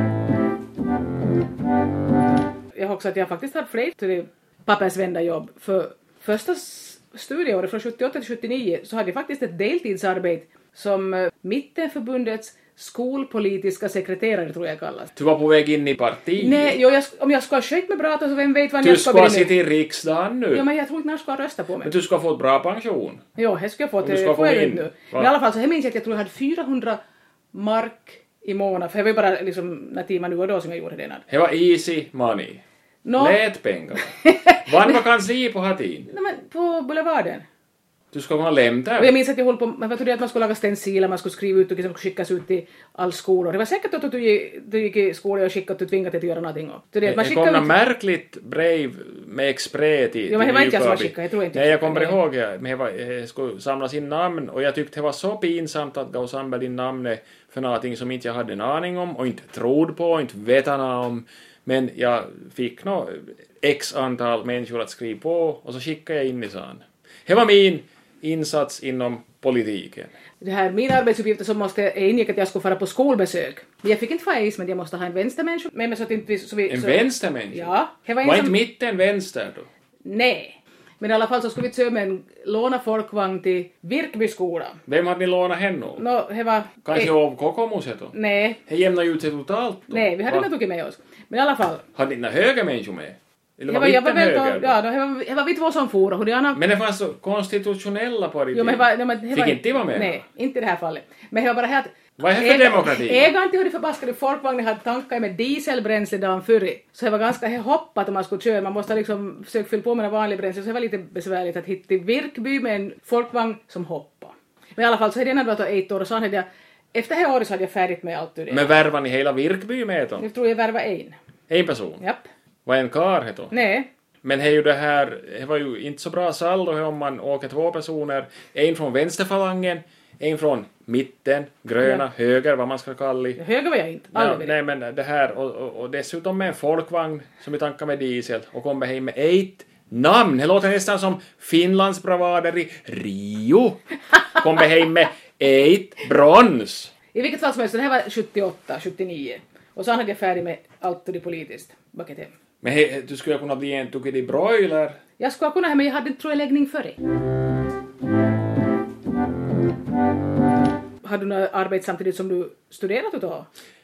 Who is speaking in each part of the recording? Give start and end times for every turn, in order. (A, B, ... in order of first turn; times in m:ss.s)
0:02.7-0:15.1 A
0:15.1-0:16.8 B
0:16.4-0:19.6 A
0:18.8-0:20.6 B
0:20.5-0:21.9 A
0:21.8-0:23.2 B
0:23.4-0:27.0 A
0:24.0-0:25.3 B
0:27.5-0:31.2 A
0:31.3-0:32.6 B
0:33.0-0:33.4 A
0:33.2-0:36.1 B
0:34.2-0:34.7 A
0:36.1-0:37.4 A
0:38.1-0:39.1 B
0:39.0-0:47.7 A
0:47.0-1:10.1 B
0:50.3-0:52.2 A
1:10.4-1:18.6 A
1:16.7-1:19.7 B
1:20.0-1:24.8 A
1:24.8-1:26.0 B
1:26.0-1:27.1 A
1:26.8-1:28.1 B
1:28.1-1:28.6 A
1:28.6-1:30.5 B
1:29.9-1:31.8 A
1:31.9-1:34.8 B
1:33.7-1:36.6 A
1:36.5-1:40.2 B
1:38.5-1:58.7 A
1:42.2-1:43.3 B
1:58.5-2:00.2 B
2:00.2-2:01.2 A
2:01.5-2:02.0 B
2:02.0-2:02.2 A
2:02.6-2:03.5 B
2:03.5-2:03.9 A
2:04.2-2:13.4 B
2:13.4-2:14.5 A
2:14.1-2:23.8 B
2:24.3-2:26.9 B
2:27.1-2:32.3 A
2:32.6-2:35.0 B
2:35.2-2:37.0 A
2:41.0-2:43.5 A